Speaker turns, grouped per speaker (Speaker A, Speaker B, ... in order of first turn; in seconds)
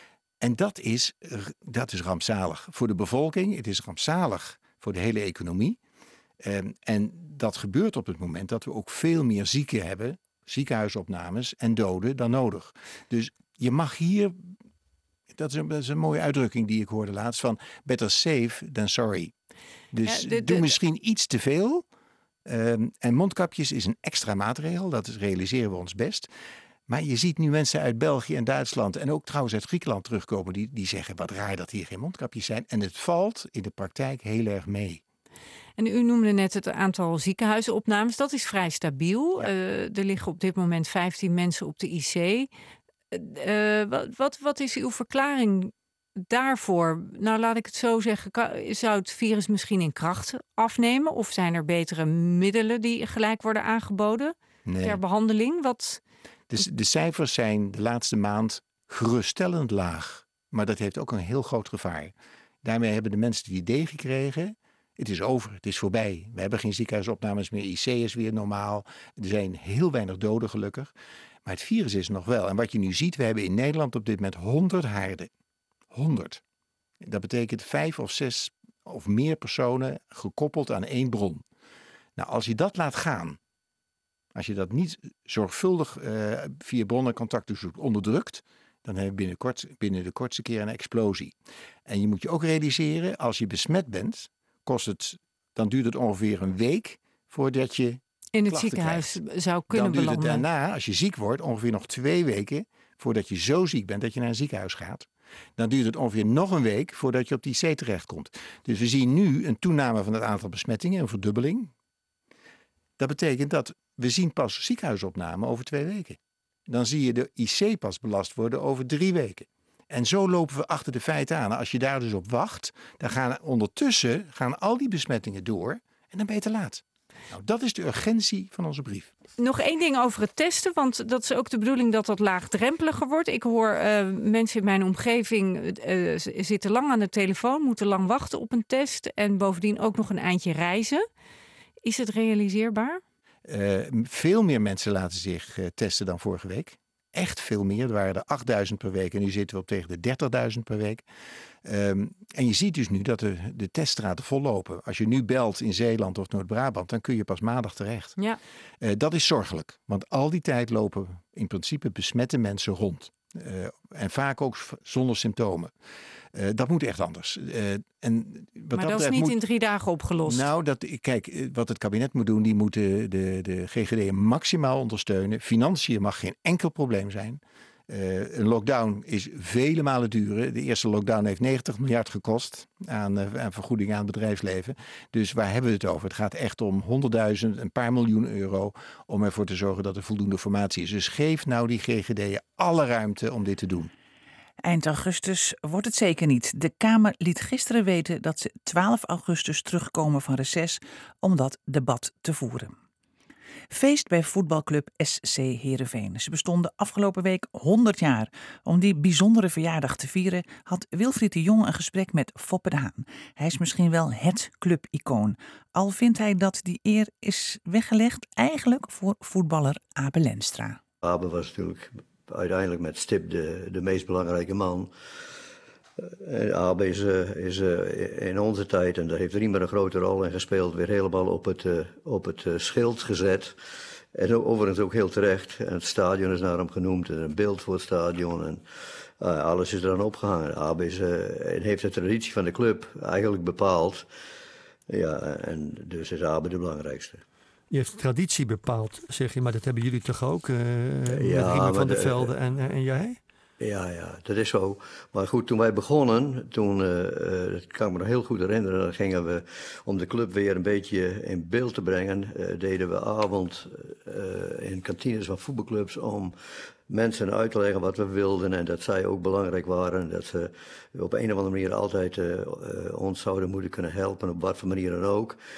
Speaker A: 0.4-5.8, 6.4-14.5, 15.3-19.3, 19.9-21.9, 22.4-26.3, 26.9-35.0, 54.6-55.0, 56.5-70.9, 71.4-75.3, 75.9-76.4, 77.0-81.4, 82.2-83.4, 84.3-91.3, 91.8-99.2, 99.7-111.7, 113.0-129.1, 143.4-151.0, 151.6-158.2, 158.8-165.7, 166.3-169.4, 170.2-193.9
Speaker B: 20.1-20.7, 35.8-42.5, 43.1-56.0, 98.3-100.5, 129.4-141.0, 141.8-143.0, 168.7-170.5
Speaker C: 194.6-202.7, 203.7-220.8
Speaker D: 221.0-224.9, 226.0-233.5, 234.1-238.6, 239.2-244.0, 244.9-247.2, 251.1-252.3, 253.6-266.3, 266.9-275.4
Speaker E: 247.7-253.2